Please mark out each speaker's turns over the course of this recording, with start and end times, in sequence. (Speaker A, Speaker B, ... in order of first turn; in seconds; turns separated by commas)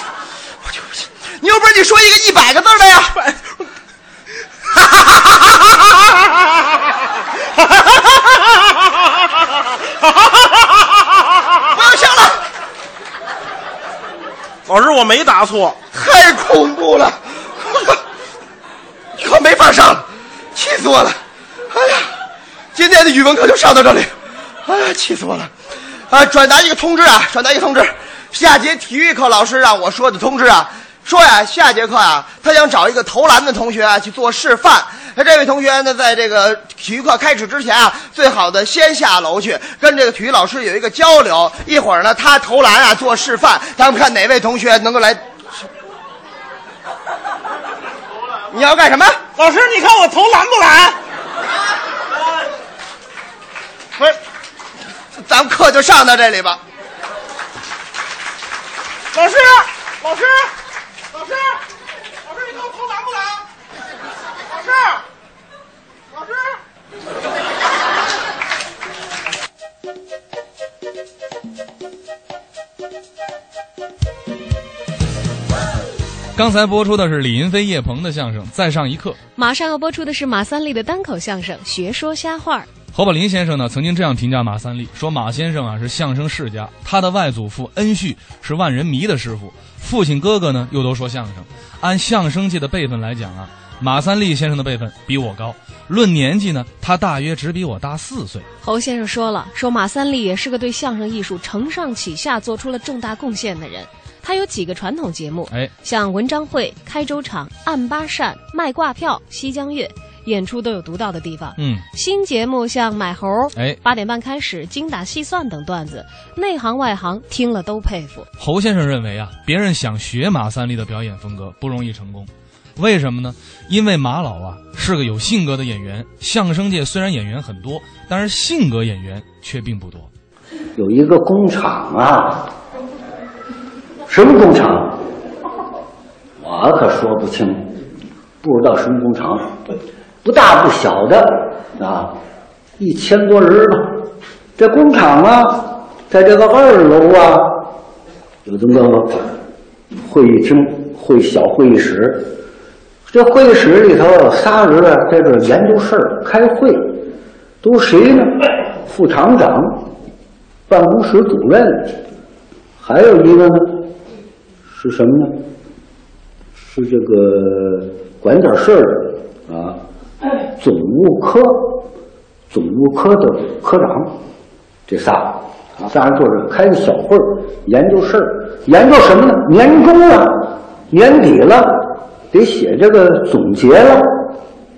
Speaker A: 0.6-3.2, Speaker B: 7.6-8.6, Speaker B: 10.0-10.4, Speaker A: 11.7-12.4, Speaker B: 14.7-15.8, Speaker A: 15.9-18.0, Speaker A: 19.2-21.2, Speaker A: 21.7-22.1, Speaker A: 22.7-24.1, Speaker A: 24.6-25.5, Speaker A: 26.1-45.2, Speaker A: 48.5-49.2, Speaker B: 49.4-51.0, Speaker A: 55.2-56.6, Speaker B: 59.1-60.5, Speaker B: 62.3-63.4, Speaker B: 64.5-65.0, Speaker C: 76.3-79.2, Speaker D: 79.3-82.7, Speaker C: 82.9-98.5, Speaker D: 98.6-118.3, Speaker C: 111.6-111.8, Speaker C: 118.4-130.1, Speaker E: 130.8-132.5, Speaker E: 134.1-135.0, Speaker E: 136.4-137.8, Speaker E: 138.4-139.6, Speaker E: 140.2-142.2, Speaker E: 142.8-147.7, Speaker E: 148.4-149.3, Speaker E: 149.9-152.4, Speaker E: 153.1-157.1, Speaker E: 157.6-159.9, Speaker E: 160.7-162.0, Speaker E: 162.8-163.9, Speaker E: 164.7-165.4, Speaker E: 166.6-169.8, Speaker E: 170.5-171.9, Speaker E: 172.5-174.2, Speaker E: 174.9-184.3